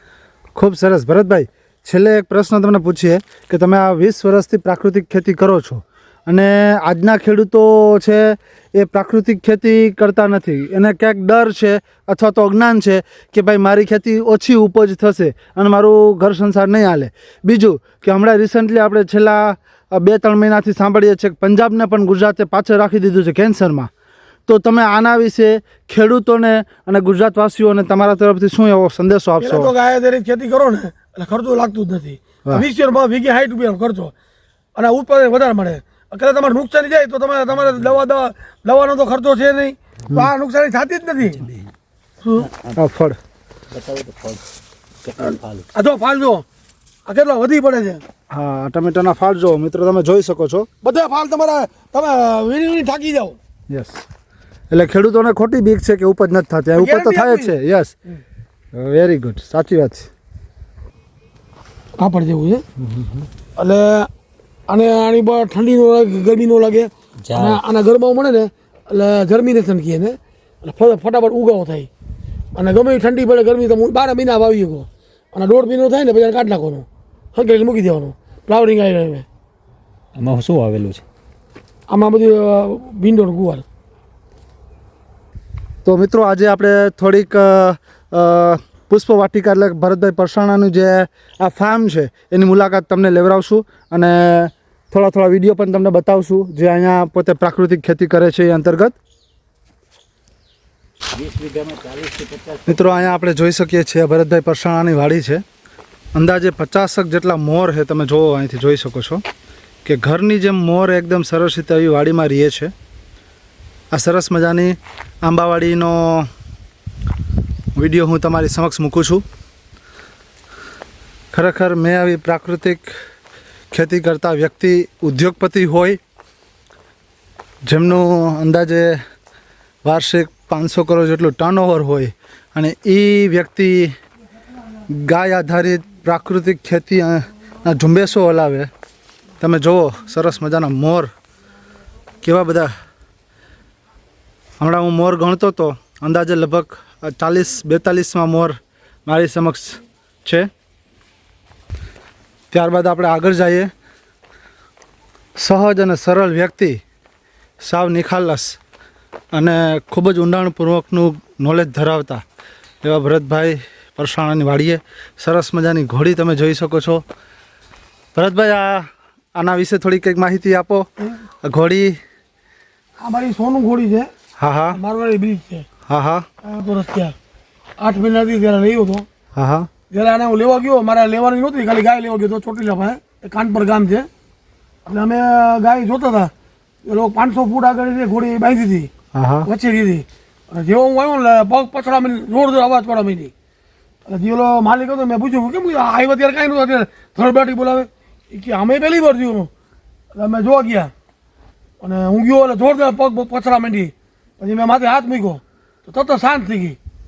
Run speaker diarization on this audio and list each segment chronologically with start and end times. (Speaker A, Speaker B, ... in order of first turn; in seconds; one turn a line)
Speaker A: 0.6-23.9
Speaker A: 24.5-29.7
Speaker B: 29.4-34.1
Speaker B: 34.8-41.5
Speaker C: 41.4-41.6
Speaker B: 42.2-42.5
Speaker C: 42.4-42.8
Speaker A: 42.8-43.2
Speaker C: 43.7-44.4
Speaker C: 45.0-45.7
Speaker B: 45.3-46.4
Speaker B: 47.1-48.0
Speaker A: 48.3-50.7
Speaker B: 50.8-53.4
Speaker A: 53.7-54.0
Speaker A: 54.7-57.9
Speaker B: 56.8-57.5
Speaker A: 58.8-60.1
Speaker B: 62.0-62.6
Speaker A: 62.8-63.2
Speaker B: 63.6-64.1
Speaker B: 64.7-71.9
Speaker C: 67.2-67.6
Speaker B: 72.5-79.2
Speaker C: 80.1-81.0
Speaker B: 81.9-83.6
Speaker A: 85.8-99.0
Speaker C: 101.1-103.2
Speaker A: 102.7-105.4
Speaker A: 106.1-109.2
Speaker A: 109.8-112.7
Speaker A: 113.9-116.3
Speaker A: 117.7-119.2
Speaker A: 121.3-122.9
Speaker A: 123.7-126.0
Speaker A: 127.7-129.0
Speaker A: 129.8-133.9
Speaker A: 134.9-138.7
Speaker A: 139.4-141.1
Speaker A: 142.2-142.7
Speaker A: 144.6-148.6
Speaker A: 149.1-150.5
Speaker A: 152.5-153.7
Speaker A: 155.4-156.8
Speaker A: 157.6-158.6
Speaker A: 159.3-162.2
Speaker A: 162.8-167.0
Speaker A: 168.1-170.8
Speaker A: 171.4-172.0
Speaker B: 173.0-174.1
Speaker A: 174.4-174.8
Speaker B: 174.7-175.7
Speaker A: 175.9-176.2
Speaker B: 176.4-177.1
Speaker B: 177.8-179.1
Speaker A: 179.3-179.7
Speaker B: 179.9-184.1
Speaker B: 184.8-186.3
Speaker B: 186.8-188.9
Speaker A: 189.1-189.5
Speaker B: 189.4-193.3
Speaker B: 194.1-199.5
Speaker B: 200.1-200.9
Speaker B: 201.8-206.8